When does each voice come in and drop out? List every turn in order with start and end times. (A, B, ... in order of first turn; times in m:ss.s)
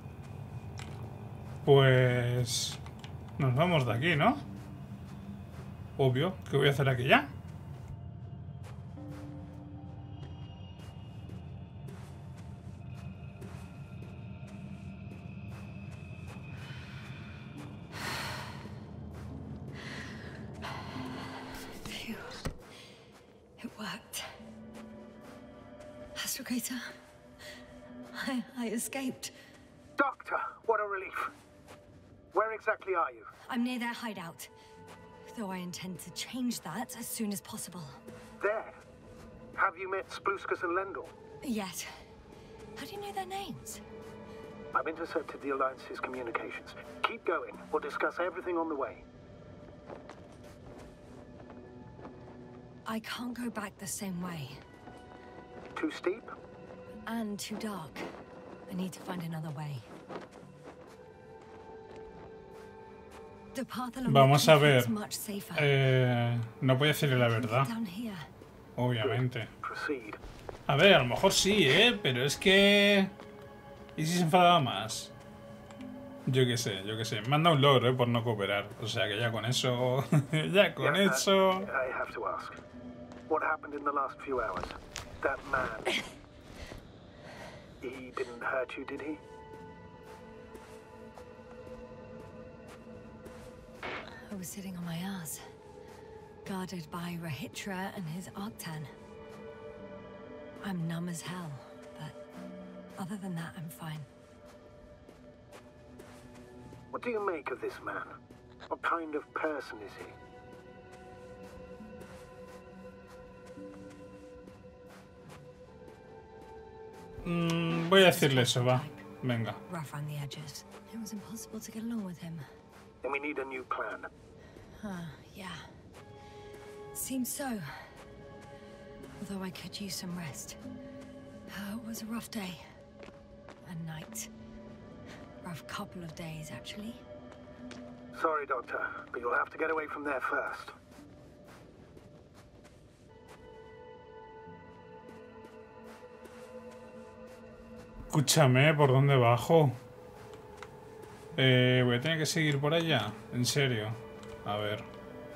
0:01.6-0:02.8 A
0:03.4-0:04.4 A
0:06.0-0:07.3 A
0:21.8-0:22.5 B
0:23.6-0:24.4 B
0:26.1-0:26.9 B
0:28.1-0:29.3 B
0:30.0-0:31.3 C
0:32.3-0:33.3 C
0:33.5-0:34.5 B
0:35.3-0:38.0 B
0:38.4-0:38.8 C
0:39.5-0:41.1 C
0:41.4-0:41.9 B
0:42.8-0:43.8 B
0:44.7-0:49.0 C
0:52.8-0:54.6 B
0:55.7-0:56.3 C
0:57.0-0:58.1 B
0:58.7-0:59.9 B
1:03.5-1:05.7 B
1:04.1-1:04.9 A
1:05.6-1:07.7 A
1:07.2-1:08.3 B
1:08.8-1:09.5 A
1:09.0-1:10.2 C
1:10.7-1:13.1 A
1:14.0-1:15.1 A
1:16.3-1:21.7 A
1:20.8-1:22.6 C
1:23.3-1:26.0 C
1:27.8-1:29.2 C
1:34.3-1:35.4 B
1:36.4-1:38.9 B
1:40.6-1:42.2 B
1:43.0-1:44.1 B
1:46.9-1:48.2 C
1:48.7-1:50.2 C
1:57.2-1:59.6 A
1:58.0-1:59.0 B
1:59.6-2:02.4 B
2:03.0-2:04.1 C
2:04.8-2:05.7 B
2:06.9-2:08.0 B
2:09.2-2:10.6 B
2:11.5-2:12.6 B
2:13.6-2:14.3 B
2:15.4-2:17.0 B
2:18.1-2:20.8 C
2:28.1-2:29.7 A
2:31.4-2:34.8 A